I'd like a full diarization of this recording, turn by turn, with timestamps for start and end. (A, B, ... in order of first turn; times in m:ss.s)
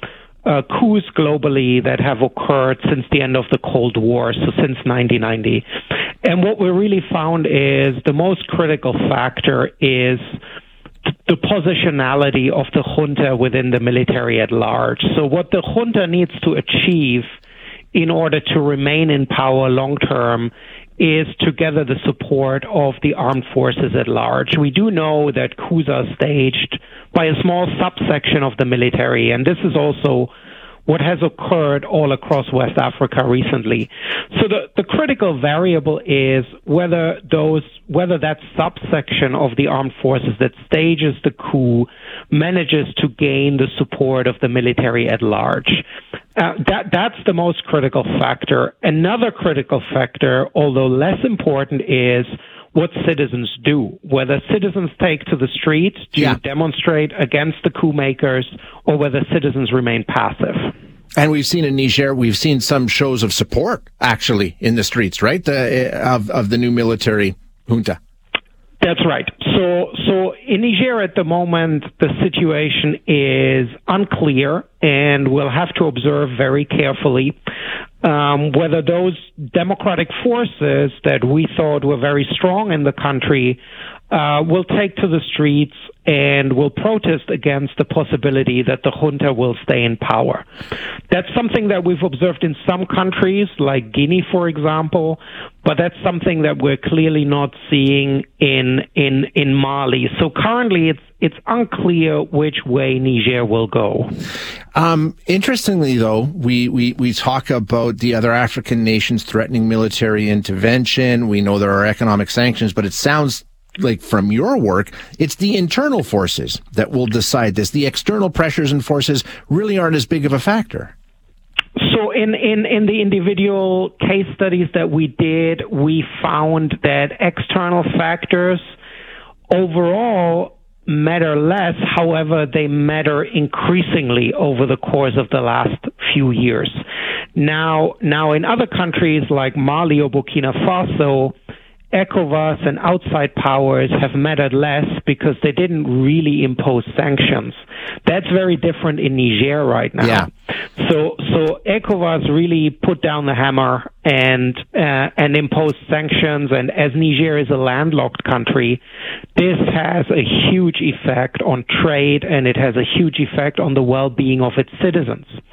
0:00.4-0:05.7 A
0:06.2-0:10.3 A
0:11.2-0:17.3 A
0:17.9-0:30.3 A
0:30.8-0:45.8 A
0:46.3-1:00.7 A
1:01.2-1:08.0 B
1:08.8-1:17.4 A
1:18.0-1:30.5 A
1:31.1-1:44.1 A
1:44.7-2:00.9 B
2:01.8-2:08.6 A
2:09.5-2:16.8 A
2:17.3-2:21.3 A
2:21.9-2:38.8 A
2:30.0-2:30.3 B
2:39.3-2:45.4 A